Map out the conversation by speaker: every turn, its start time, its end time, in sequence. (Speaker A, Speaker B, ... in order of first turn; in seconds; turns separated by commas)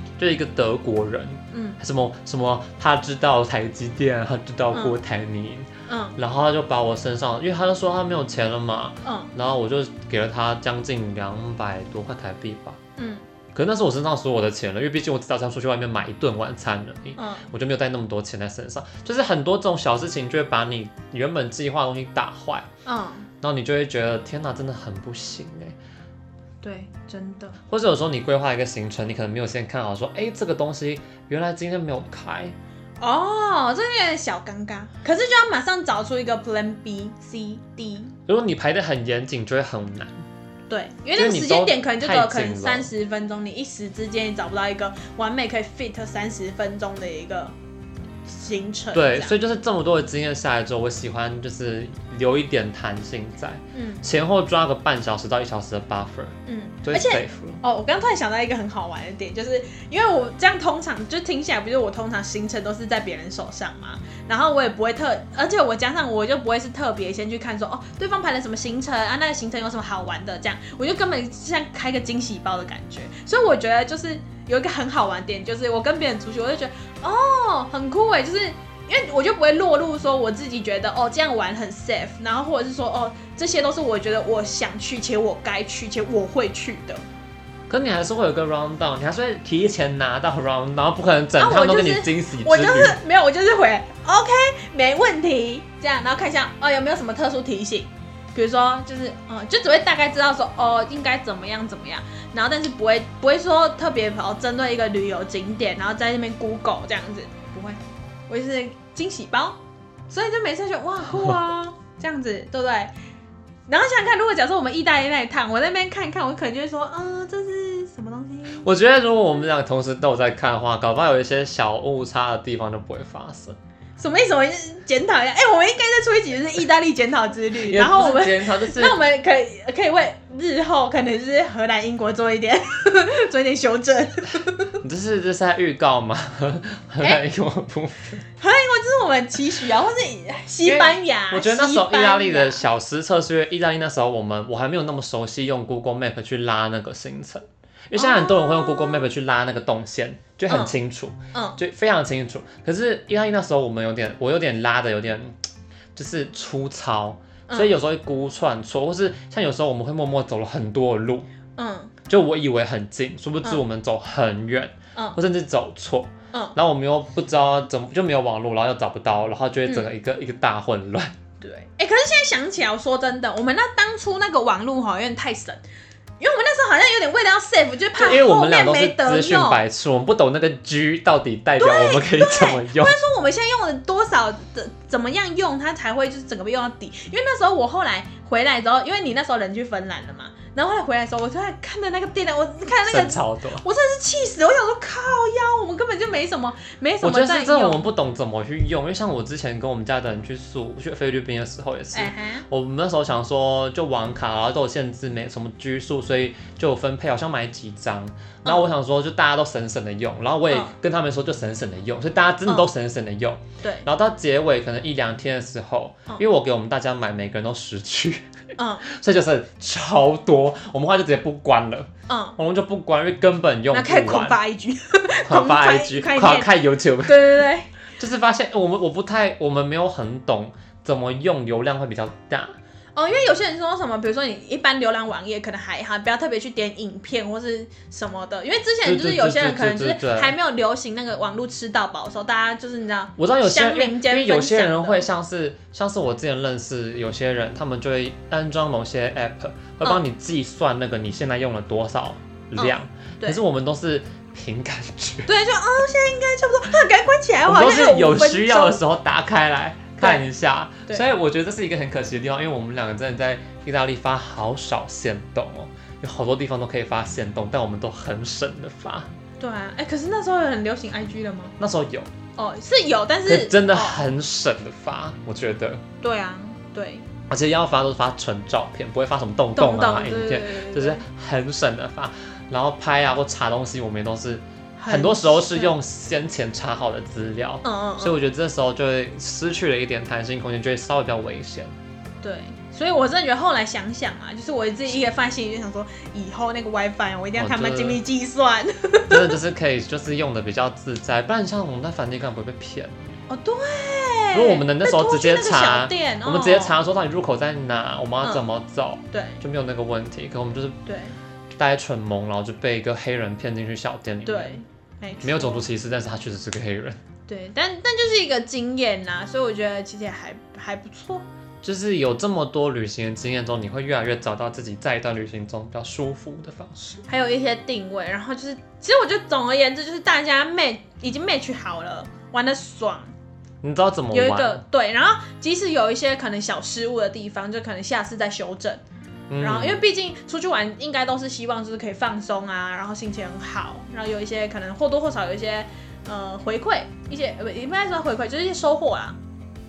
Speaker A: 0.2-12.8, Speaker B: 1.5-1.8, Speaker B: 4.7-5.0, Speaker B: 5.9-6.2, Speaker B: 9.1-9.3, Speaker B: 13.0-13.2, Speaker A: 13.5-22.7, Speaker B: 17.2-17.5, Speaker B: 22.9-23.3, Speaker A: 23.4-25.8, Speaker B: 26.6-27.6, Speaker A: 27.7-32.5, Speaker B: 33.0-38.1, Speaker A: 38.3-40.2, Speaker B: 40.7-47.5, Speaker A: 41.1-42.9, Speaker B: 48.3-49.3, Speaker A: 48.9-57.6, Speaker B: 53.7-54.0, Speaker B: 56.5-87.0, Speaker A: 87.7-93.0, Speaker B: 91.4-109.6, Speaker B: 110.1-112.9, Speaker B: 113.7-118.7, Speaker A: 118.6-123.6, Speaker B: 124.0-134.8, Speaker A: 127.5-129.0, Speaker A: 134.8-138.2, Speaker B: 138.4-142.6, Speaker A: 140.7-155.4, Speaker B: 148.0-149.1, Speaker B: 150.5-150.8, Speaker B: 151.3-151.6, Speaker A: 155.9-161.3, Speaker B: 161.6-161.9, Speaker A: 162.1-171.2, Speaker B: 169.7-169.9, Speaker B: 171.4-175.6, Speaker B: 176.2-179.6, Speaker A: 177.9-183.0, Speaker B: 181.6-197.8, Speaker A: 192.8-193.6, Speaker A: 197.0-218.2, Speaker B: 201.9-202.5, Speaker B: 210.5-210.8, Speaker B: 213.6-213.9, Speaker B: 218.6-218.9, Speaker A: 218.8-224.4, Speaker B: 222.1-222.4, Speaker B: 223.7-227.7, Speaker A: 225.3-232.6, Speaker B: 233.0-245.1, Speaker A: 238.8-240.4, Speaker A: 243.2-255.3, Speaker B: 252.6-253.4, Speaker B: 255.3-258.8, Speaker A: 257.5-269.1, Speaker B: 260.0-260.3, Speaker B: 269.4-271.6, Speaker A: 271.6-272.1, Speaker B: 272.4-274.2, Speaker A: 273.3-275.8, Speaker B: 276.0-277.1, Speaker A: 277.3-291.7, Speaker B: 279.6-281.1, Speaker B: 284.8-285.8, Speaker B: 287.6-288.2, Speaker B: 292.2-299.4, Speaker A: 297.4-298.0, Speaker A: 299.1-303.0, Speaker B: 303.3-306.8, Speaker A: 304.3-310.8, Speaker B: 309.1-309.4, Speaker B: 310.9-311.2, Speaker A: 311.6-314.6, Speaker B: 314.2-315.7, Speaker A: 315.2-317.0, Speaker B: 317.3-321.3, Speaker A: 321.6-327.0, Speaker B: 327.1-333.1, Speaker A: 333.6-334.6, Speaker B: 334.1-338.8, Speaker A: 339.3-339.8, Speaker B: 339.4-349.2